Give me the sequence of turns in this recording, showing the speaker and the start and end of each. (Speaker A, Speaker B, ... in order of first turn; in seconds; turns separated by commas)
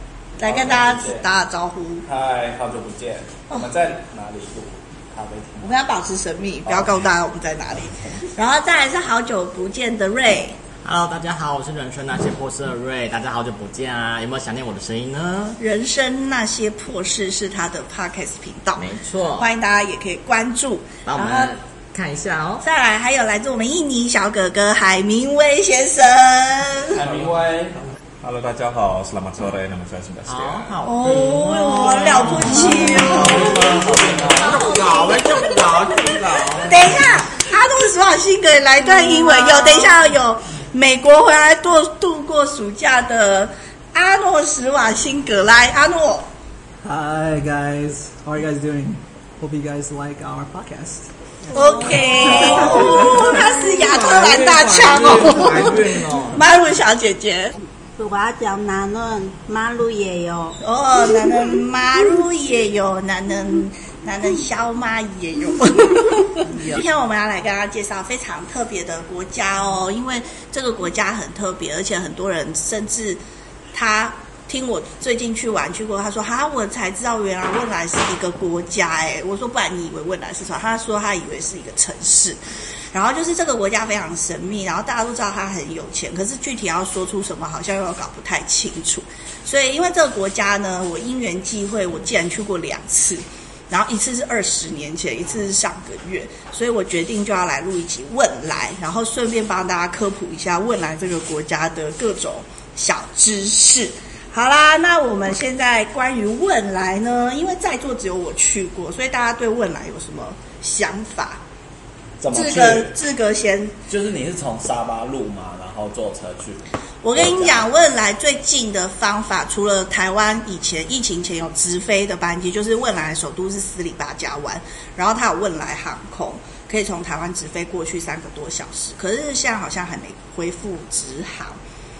Speaker A: 0.4-2.1, Speaker B: 0.4-1.2, Speaker B: 2.0-5.7, Speaker A: 5.6-10.6, Speaker B: 6.7-6.9, Speaker C: 10.8-15.6, Speaker A: 15.6-21.5, Speaker C: 18.7-19.5, Speaker C: 21.0-22.6, Speaker A: 22.6-27.0, Speaker B: 26.9-27.8, Speaker D: 28.2-30.8, Speaker C: 30.2-36.9, Speaker A: 30.8-33.7, Speaker B: 32.7-34.8, Speaker A: 34.5-35.3, Speaker A: 36.6-46.3, Speaker E: 46.8-51.1, Speaker A: 51.5-55.8, Speaker F: 51.5-53.0, Speaker E: 52.0-56.2, Speaker C: 54.6-56.3, Speaker A: 56.3-57.5, Speaker F: 58.0-60.6, Speaker A: 60.6-73.2, Speaker A: 73.7-82.4, Speaker A: 82.9-111.4, Speaker B: 112.2-112.9, Speaker A: 112.3-113.7, Speaker B: 113.9-116.6, Speaker A: 117.0-131.6, Speaker B: 117.2-117.7